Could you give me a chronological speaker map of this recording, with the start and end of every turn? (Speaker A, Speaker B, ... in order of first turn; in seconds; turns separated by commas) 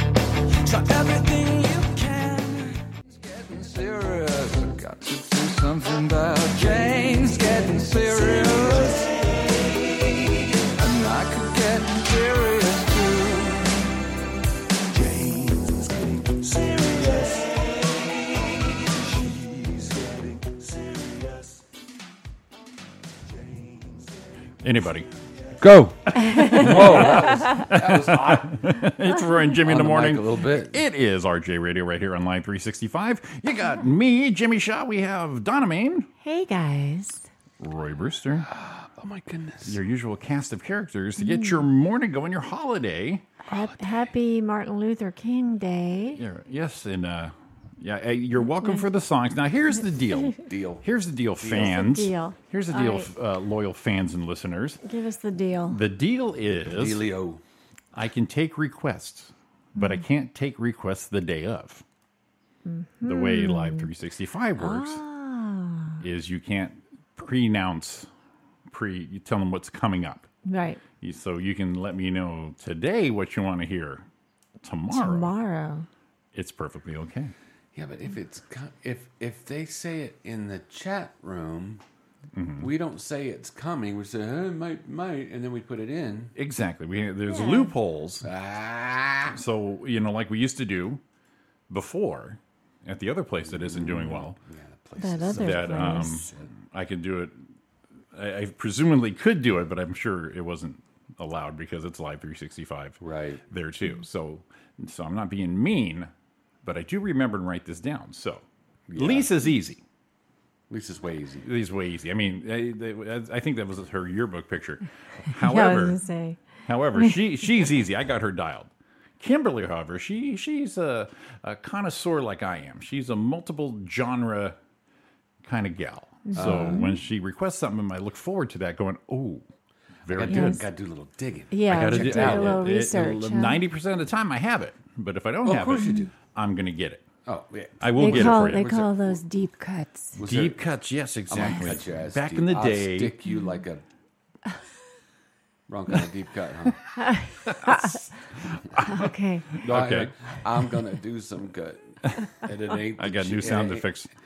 Speaker A: 0.6-9.5, Speaker A: 10.6-13.9, Speaker A: 14.9-21.6, Speaker A: 23.4-24.1, Speaker B: 24.6-25.1, Speaker C: 25.6-28.9, Speaker D: 26.1-26.9, Speaker B: 26.2-36.1, Speaker C: 29.6-30.8, Speaker D: 36.2-37.3, Speaker B: 37.6-38.5, Speaker C: 38.4-39.8, Speaker B: 39.6-43.3, Speaker D: 41.2-41.6, Speaker D: 43.5-46.2, Speaker C: 43.5-44.1, Speaker B: 46.2-54.8, Speaker D: 48.5-48.8, Speaker C: 50.4-50.8, Speaker C: 51.4-51.9, Speaker D: 51.5-53.1, Speaker D: 54.8-55.8, Speaker B: 55.7-57.0, Speaker C: 56.6-57.4, Speaker B: 57.9-61.8, Speaker D: 59.8-60.0, Speaker D: 62.6-63.9, Speaker B: 63.0-65.0, Speaker D: 64.6-66.0, Speaker B: 66.0-68.1, Speaker B: 68.7-70.3, Speaker D: 70.5-70.8, Speaker B: 71.0-74.0, Speaker B: 74.6-75.3, Speaker D: 74.9-75.9, Speaker B: 76.3-77.3, Speaker C: 77.7-81.8, Speaker B: 82.3-82.7, Speaker C: 82.6-86.3, Speaker B: 86.3-88.3, Speaker D: 87.3-87.7, Speaker C: 88.2-89.4, Speaker B: 89.3-91.0, Speaker B: 91.7-94.4, Speaker C: 93.4-96.5, Speaker D: 95.0-96.2, Speaker B: 95.3-97.3, Speaker B: 98.1-106.1, Speaker C: 103.0-103.4, Speaker B: 106.6-108.4, Speaker C: 108.9-109.3, Speaker B: 109.0-109.8, Speaker C: 110.7-111.5, Speaker B: 111.4-116.0, Speaker D: 115.4-116.4, Speaker B: 116.7-124.5, Speaker B: 125.4-129.4, Speaker D: 126.3-126.8, Speaker C: 126.3-126.9, Speaker B: 130.1-130.6, Speaker C: 130.1-132.6, Speaker D: 130.3-130.6, Speaker D: 131.5-133.6, Speaker B: 131.7-137.1, Speaker C: 135.4-136.1, Speaker C: 137.2-139.2, Speaker B: 137.8-138.8, Speaker D: 138.0-140.2, Speaker C: 140.2-140.6, Speaker B: 140.2-143.2, Speaker C: 141.3-143.8, Speaker C: 145.7-146.8, Speaker D: 146.9-148.0, Speaker B: 147.5-150.3, Speaker D: 148.8-149.5, Speaker C: 149.6-153.9, Speaker B: 153.0-154.1